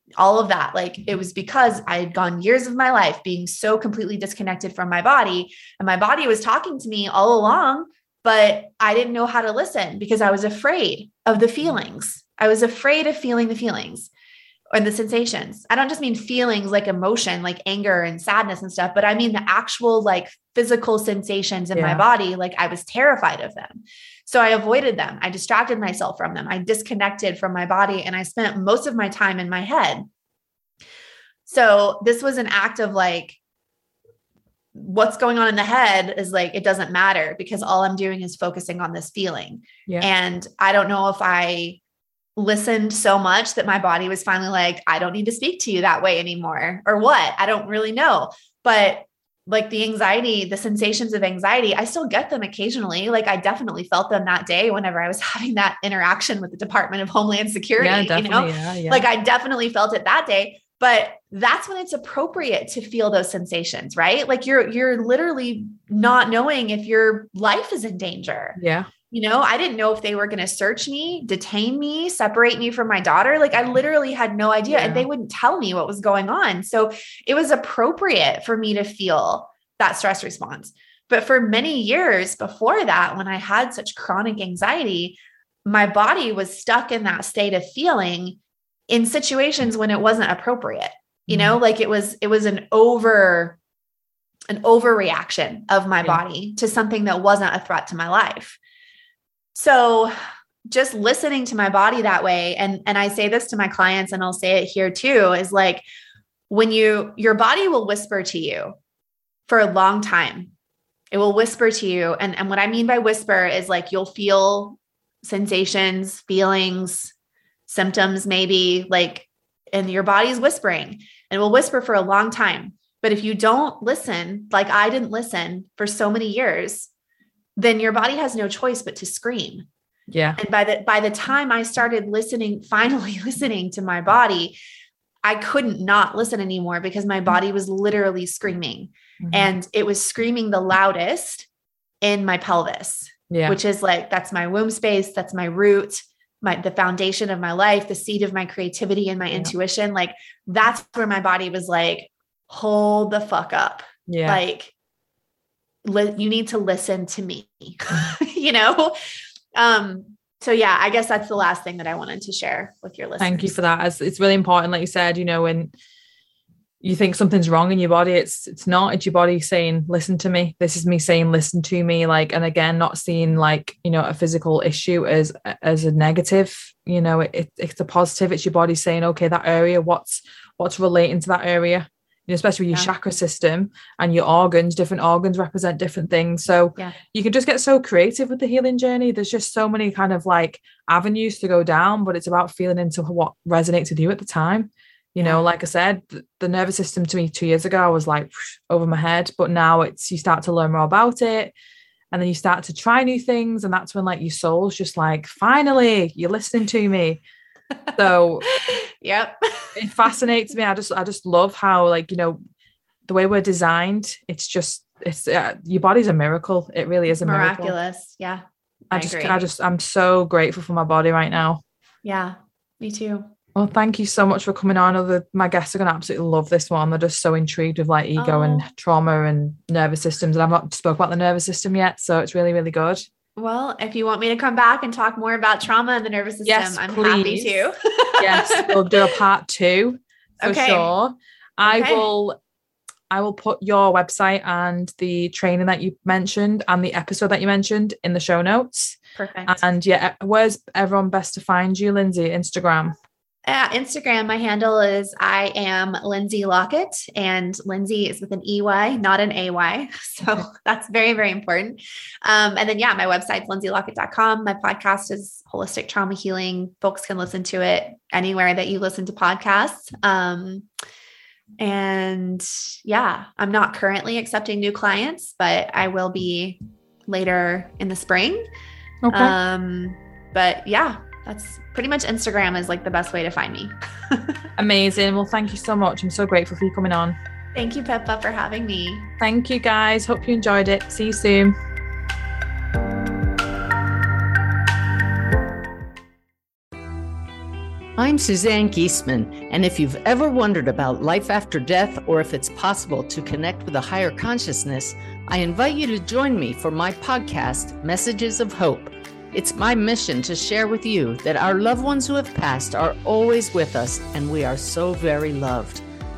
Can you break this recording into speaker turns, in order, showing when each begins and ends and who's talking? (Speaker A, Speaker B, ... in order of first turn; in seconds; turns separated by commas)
Speaker A: 0.2-14.1, Speaker A: 14.7-30.1, Speaker B: 21.7-22.0, Speaker A: 31.5-33.4, Speaker A: 34.7-41.8, Speaker A: 42.4-68.6, Speaker B: 57.8-59.1, Speaker B: 68.6-68.9, Speaker A: 69.1-88.4, Speaker B: 74.7-75.1, Speaker A: 88.9-93.6, Speaker B: 91.3-91.6, Speaker A: 94.5-98.6, Speaker A: 99.5-100.1, Speaker A: 100.7-105.8, Speaker A: 106.5-108.7, Speaker A: 109.5-110.5, Speaker A: 111.1-117.1, Speaker A: 117.7-126.9, Speaker A: 127.6-129.7, Speaker B: 130.1-130.4, Speaker A: 130.4-134.6, Speaker A: 135.2-141.5, Speaker B: 139.2-139.5, Speaker A: 142.0-154.7, Speaker B: 143.3-143.6, Speaker B: 154.1-154.4, Speaker A: 155.8-158.9, Speaker A: 159.5-163.6, Speaker B: 163.2-165.7, Speaker B: 166.8-201.5, Speaker B: 202.1-207.2, Speaker B: 207.9-208.5, Speaker A: 208.4-209.8, Speaker B: 209.8-212.4, Speaker B: 213.1-217.7, Speaker A: 217.2-219.4, Speaker B: 218.9-221.6, Speaker A: 222.0-223.3, Speaker B: 223.5-233.0, Speaker A: 228.2-228.7, Speaker A: 233.4-238.9, Speaker B: 236.4-237.6, Speaker B: 238.2-242.4, Speaker A: 240.4-240.9, Speaker A: 241.6-242.1, Speaker B: 243.1-252.9, Speaker A: 249.2-249.6, Speaker A: 253.4-270.6, Speaker A: 271.6-278.5, Speaker B: 279.0-279.3, Speaker A: 279.1-284.3, Speaker B: 284.6-287.2, Speaker A: 287.5-289.1, Speaker B: 289.2-291.6, Speaker C: 298.0-315.8